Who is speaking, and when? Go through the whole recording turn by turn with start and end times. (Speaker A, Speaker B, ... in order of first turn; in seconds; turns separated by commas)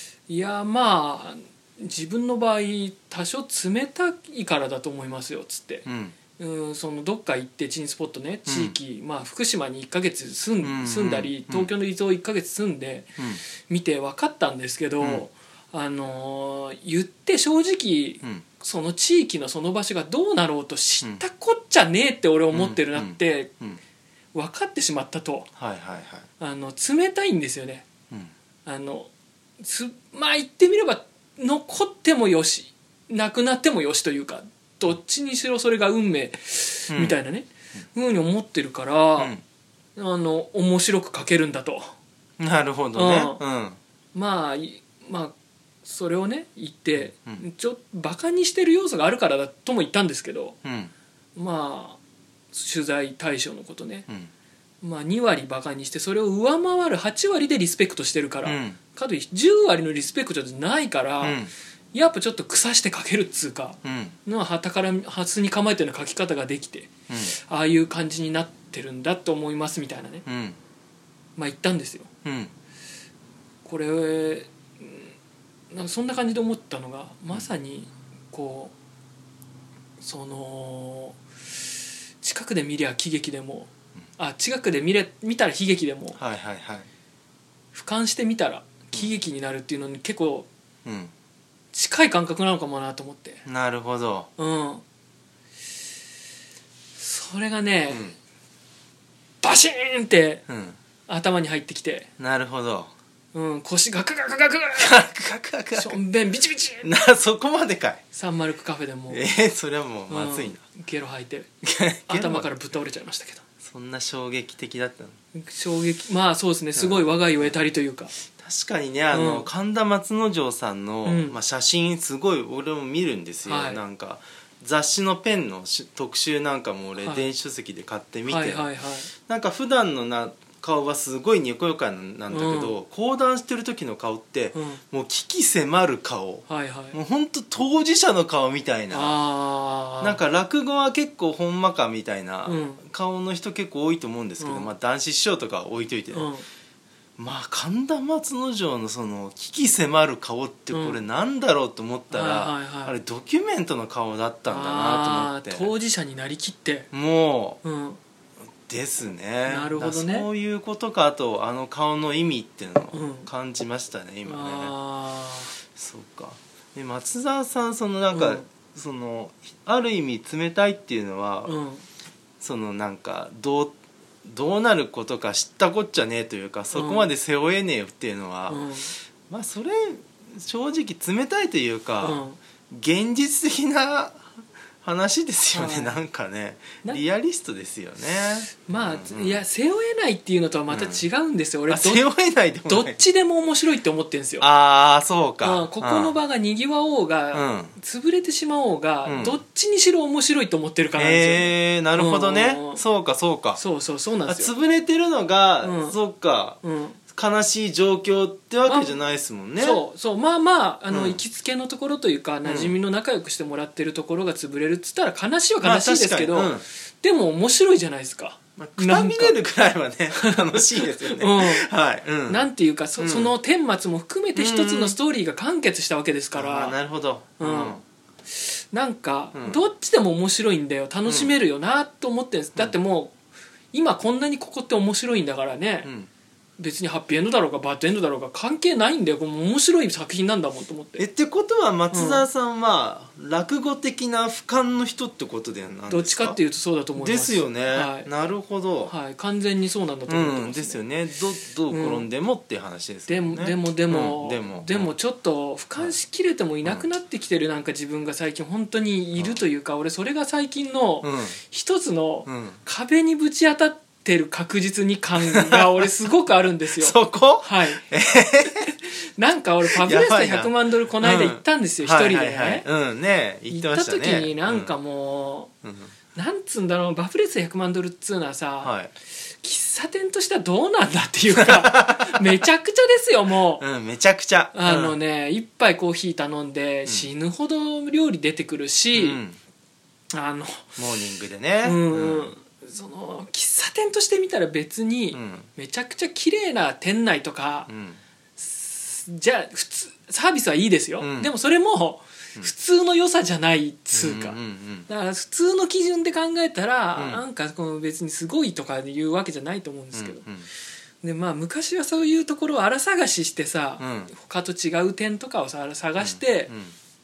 Speaker A: 0.3-5.9, Speaker B: 5.9-6.2, Speaker A: 6.4-23.5, Speaker B: 8.5-8.8, Speaker B: 10.6-11.7, Speaker B: 15.0-15.3, Speaker B: 22.5-23.8, Speaker A: 24.3-25.5, Speaker B: 25.6-26.3, Speaker A: 26.4-27.9, Speaker A: 28.7-39.4, Speaker B: 36.9-37.2, Speaker A: 40.0-41.9, Speaker B: 42.4-43.8, Speaker A: 43.0-43.4, Speaker A: 44.1-50.6, Speaker B: 47.0-47.4, Speaker B: 50.6-50.9, Speaker A: 51.4-52.0, Speaker A: 52.5-54.1, Speaker A: 54.8-61.4, Speaker B: 58.5-58.8, Speaker B: 61.2-61.5, Speaker A: 61.9-70.2, Speaker B: 63.8-64.2, Speaker B: 67.1-67.3, Speaker B: 70.3-70.6, Speaker A: 71.4-72.1, Speaker B: 72.2-72.5, Speaker A: 73.7-75.1, Speaker A: 75.7-78.7, Speaker A: 80.0-81.2, Speaker A: 82.2-86.2, Speaker B: 86.2-86.9, Speaker A: 87.7-90.5, Speaker B: 90.8-91.1, Speaker A: 91.7-93.4, Speaker B: 93.5-94.3, Speaker A: 94.4-94.8, Speaker A: 97.0-98.1, Speaker B: 97.9-98.2, Speaker A: 99.4-100.5, Speaker B: 100.5-100.8, Speaker A: 101.1-102.1, Speaker B: 102.2-102.9, Speaker A: 103.3-105.0, Speaker B: 104.8-106.0, Speaker A: 105.8-106.9, Speaker B: 106.8-108.0, Speaker A: 108.1-109.2, Speaker B: 109.1-110.6, Speaker A: 110.1-111.5, Speaker B: 111.6-112.5, Speaker A: 112.1-113.4, Speaker B: 113.6-115.2, Speaker A: 115.3-118.1, Speaker B: 116.8-117.5, Speaker B: 118.3-128.7, Speaker A: 119.1-119.5, Speaker A: 121.0-121.4, Speaker A: 123.5-123.8, Speaker A: 127.0-127.3, Speaker A: 128.3-129.1, Speaker B: 129.3-139.2, Speaker A: 132.3-132.8, Speaker A: 134.5-134.8, Speaker A: 136.5-137.0, Speaker A: 138.9-140.2, Speaker B: 140.0-146.3, Speaker A: 142.5-142.8, Speaker A: 144.4-144.7, Speaker A: 146.1-146.4, Speaker B: 147.2-155.7, Speaker A: 150.7-151.0, Speaker A: 152.1-153.0, Speaker A: 154.5-156.9, Speaker B: 156.9-157.6, Speaker A: 157.6-158.0, Speaker B: 158.7-164.7, Speaker A: 159.5-160.3, Speaker A: 162.9-163.3, Speaker A: 164.2-165.6, Speaker B: 165.7-171.5, Speaker A: 168.1-168.5, Speaker A: 171.4-171.8, Speaker B: 172.4-178.6, Speaker A: 176.7-177.1, Speaker A: 178.5-178.9, Speaker B: 179.3-184.2, Speaker A: 182.0-182.4, Speaker B: 184.8-189.4, Speaker A: 185.5-185.9, Speaker A: 188.7-192.0, Speaker B: 190.7-191.0, Speaker B: 191.7-193.0, Speaker A: 192.7-194.5, Speaker B: 194.4-196.1, Speaker A: 195.4-202.8, Speaker B: 197.3-197.7, Speaker B: 199.1-199.4, Speaker B: 201.0-203.6, Speaker A: 203.6-204.5, Speaker B: 204.3-206.6, Speaker A: 205.6-206.0, Speaker A: 206.6-207.0, Speaker B: 207.1-209.8, Speaker A: 208.7-208.9, Speaker A: 209.6-219.4, Speaker B: 210.9-211.2, Speaker B: 212.4-212.8, Speaker B: 215.6-216.7, Speaker B: 218.6-222.4, Speaker A: 220.1-221.7, Speaker A: 222.3-226.8, Speaker B: 223.0-223.3, Speaker B: 224.3-225.0, Speaker B: 226.3-227.8, Speaker A: 227.4-227.8, Speaker A: 228.3-233.1, Speaker B: 229.3-229.6, Speaker B: 231.1-231.3, Speaker A: 233.7-235.9, Speaker B: 235.8-236.1, Speaker A: 236.6-241.1, Speaker B: 241.0-246.4, Speaker A: 241.9-242.3, Speaker A: 245.9-248.1, Speaker B: 247.0-248.9, Speaker A: 248.8-250.8, Speaker B: 250.1-254.9, Speaker A: 251.7-252.1, Speaker A: 253.1-267.8, Speaker B: 261.0-261.4, Speaker B: 262.3-262.6, Speaker B: 265.2-265.9, Speaker B: 266.8-268.7, Speaker A: 268.6-272.7, Speaker B: 269.6-274.7, Speaker A: 273.5-275.5, Speaker B: 275.6-275.9, Speaker A: 276.1-278.7, Speaker B: 278.6-278.9, Speaker A: 279.4-283.6, Speaker B: 281.3-282.4, Speaker B: 283.6-285.0, Speaker A: 284.5-289.2, Speaker B: 288.9-289.4, Speaker A: 290.1-290.8, Speaker B: 290.8-292.3, Speaker A: 291.6-297.7, Speaker B: 295.1-295.5, Speaker B: 297.7-298.0, Speaker A: 298.4-310.2, Speaker B: 301.0-301.3, Speaker B: 303.9-304.9, Speaker B: 307.0-307.2, Speaker B: 309.9-310.5, Speaker A: 311.0-316.5, Speaker B: 313.8-314.1, Speaker B: 316.0-316.7